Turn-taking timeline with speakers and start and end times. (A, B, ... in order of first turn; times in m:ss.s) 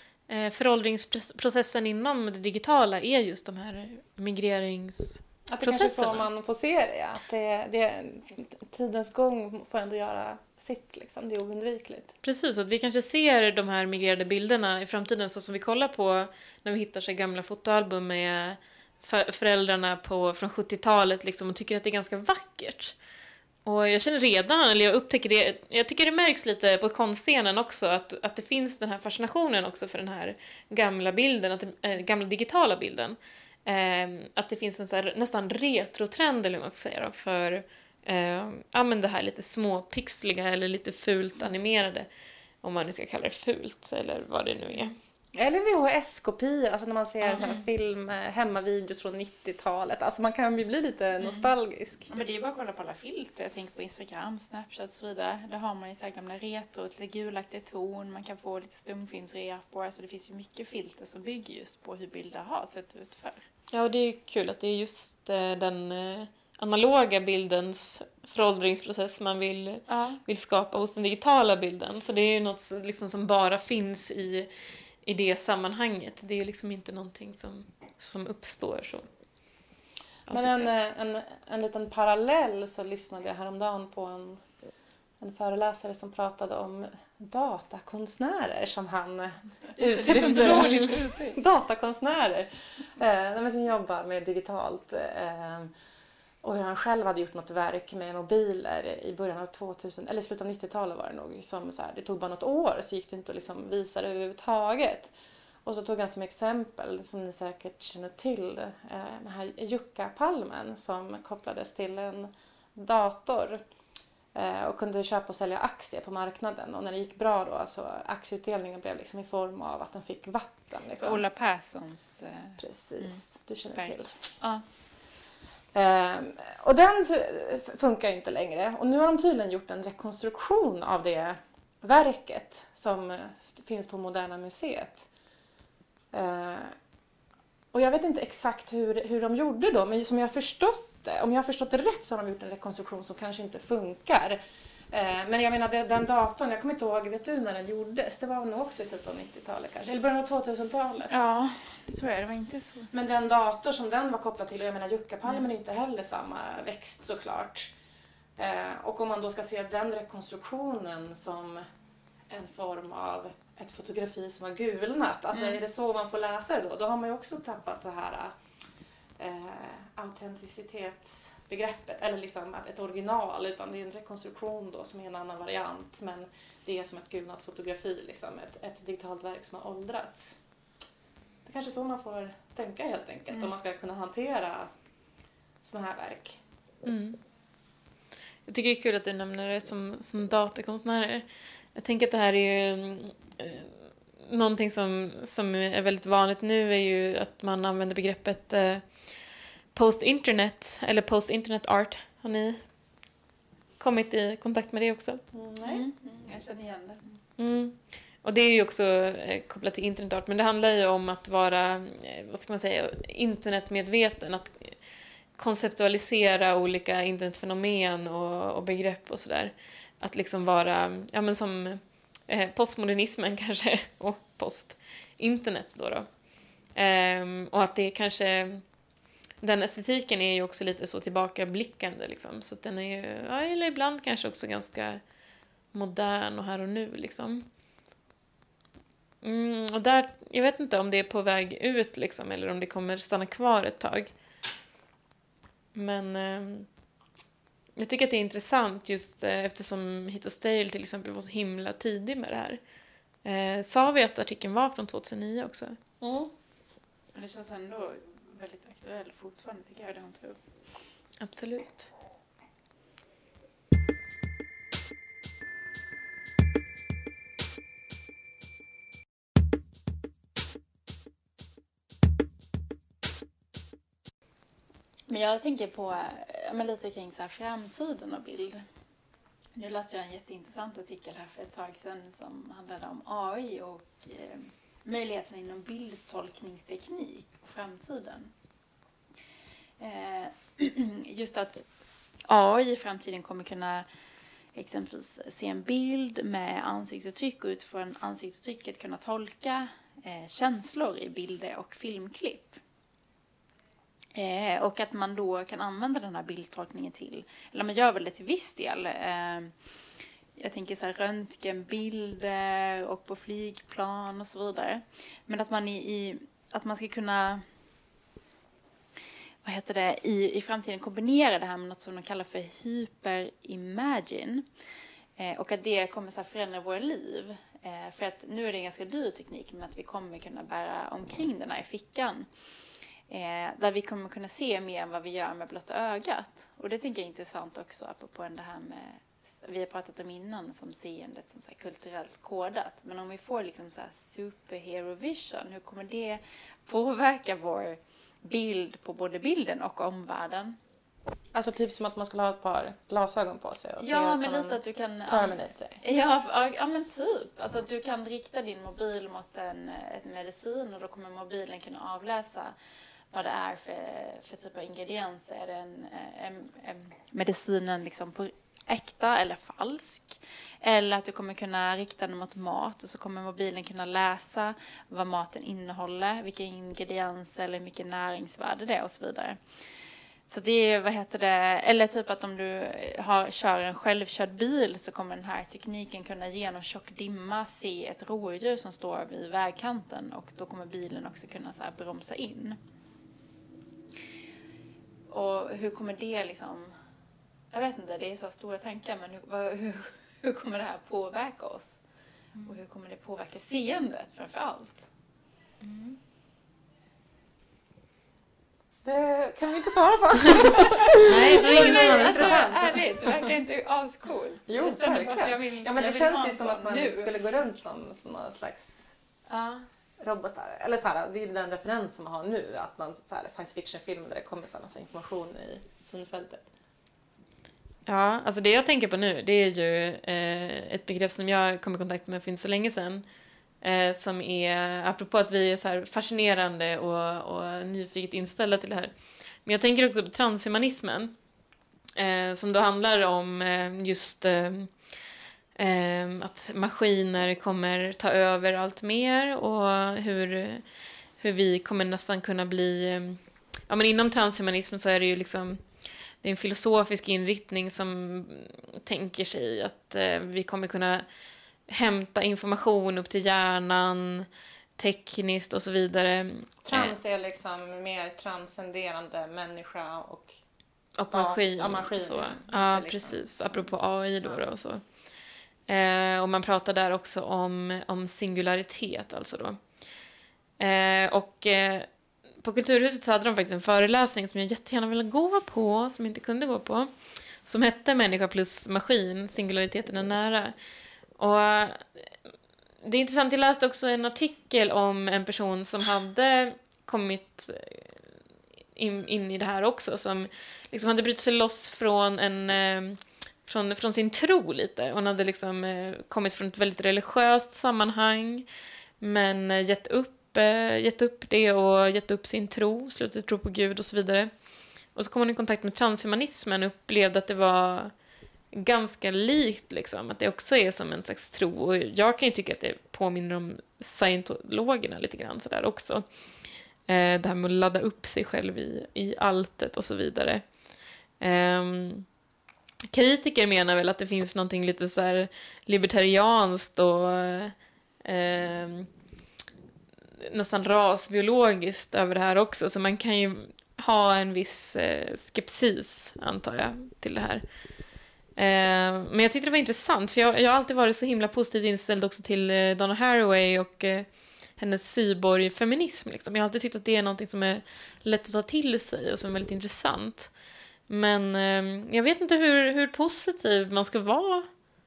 0:00.3-0:06.3 A
0:05.5-0:12.1 B
0:12.2-0:22.9 A
0:23.6-0:42.1 A
0:42.6-0:44.9 A
0:45.4-0:52.1 B
0:52.1-1:03.5 C
1:03.7-1:14.5 A
1:09.9-1:10.2 C
1:15.0-1:19.1 A
1:20.3-1:20.7 A
1:20.3-1:24.4 B
1:25.2-1:35.7 B
1:29.7-1:31.4 C
1:36.4-1:45.1 B
1:45.6-1:53.6 B
1:54.3-2:01.2 B
2:01.0-2:03.2 C
2:02.6-2:04.1 B
2:03.8-2:04.6 C
2:05.7-2:15.1 B
2:16.1-2:16.7 B
2:17.7-2:24.4 B
2:24.9-2:31.1 B
2:31.1-2:33.0 C
2:32.9-2:37.7 B
2:38.4-2:41.6 B
2:42.3-2:48.3 B
2:45.3-2:45.6 C
2:49.2-3:00.4 B
3:01.4-3:04.7 B
3:05.6-3:06.4 B
3:06.8-3:07.2 A
3:08.5-3:18.9 A
3:19.7-3:22.6 A
3:23.8-3:25.2 A
3:25.3-3:25.8 B
3:25.6-3:27.2 C
3:27.4-3:34.8 A
3:35.4-3:46.1 A
3:46.8-3:48.6 A
3:49.4-3:55.0 A
3:55.7-3:57.5 A
3:59.2-4:04.1 A
4:05.7-4:06.7 A
4:07.8-4:12.6 A
4:13.2-4:15.8 A
4:16.0-4:16.3 B
4:17.1-4:20.4 C
4:21.2-4:21.9 A
4:35.1-4:38.6 C
4:39.6-4:48.3 C
4:49.8-4:51.6 C
4:52.3-4:53.9 C
4:54.5-5:02.6 C
5:04.1-5:09.6 C
5:10.4-5:17.4 C
5:19.4-5:24.5 C
5:25.2-5:32.3 C
5:33.1-5:50.6 C
5:51.3-5:55.8 B
5:53.8-6:02.5 C
6:03.1-6:19.4 C
6:20.3-6:32.6 C
6:35.1-6:36.7 C
6:37.5-6:41.8 C
6:42.4-6:44.9 C
6:45.7-6:45.9 C
6:48.8-6:53.3 B
6:50.4-6:57.1 C
6:50.9-6:52.4 A
6:54.5-6:58.9 B
6:59.3-6:59.6 C
7:00.0-7:06.5 B
7:07.9-7:13.0 A
7:13.6-7:18.9 A
7:19.4-7:21.1 A
7:22.0-7:24.7 A
7:25.6-7:30.6 A
7:31.2-7:35.6 A
7:36.2-7:41.0 A
7:41.7-7:44.3 A
7:44.8-7:46.9 A
7:46.6-7:50.4 B
7:51.0-7:54.8 A
7:51.1-7:53.9 B
7:55.7-7:59.6 A
8:00.6-8:01.9 A
8:02.4-8:06.9 A
8:07.5-8:10.6 A
8:11.2-8:12.1 A
8:12.8-8:18.0 A
8:18.8-8:28.5 A
8:29.0-8:34.3 A
8:34.9-8:37.9 A
8:38.5-8:46.0 A
8:46.9-8:50.4 A
8:51.2-8:52.1 A
8:52.9-8:58.9 A
9:00.2-9:07.4 A
9:08.4-9:20.3 A
9:20.9-9:24.5 A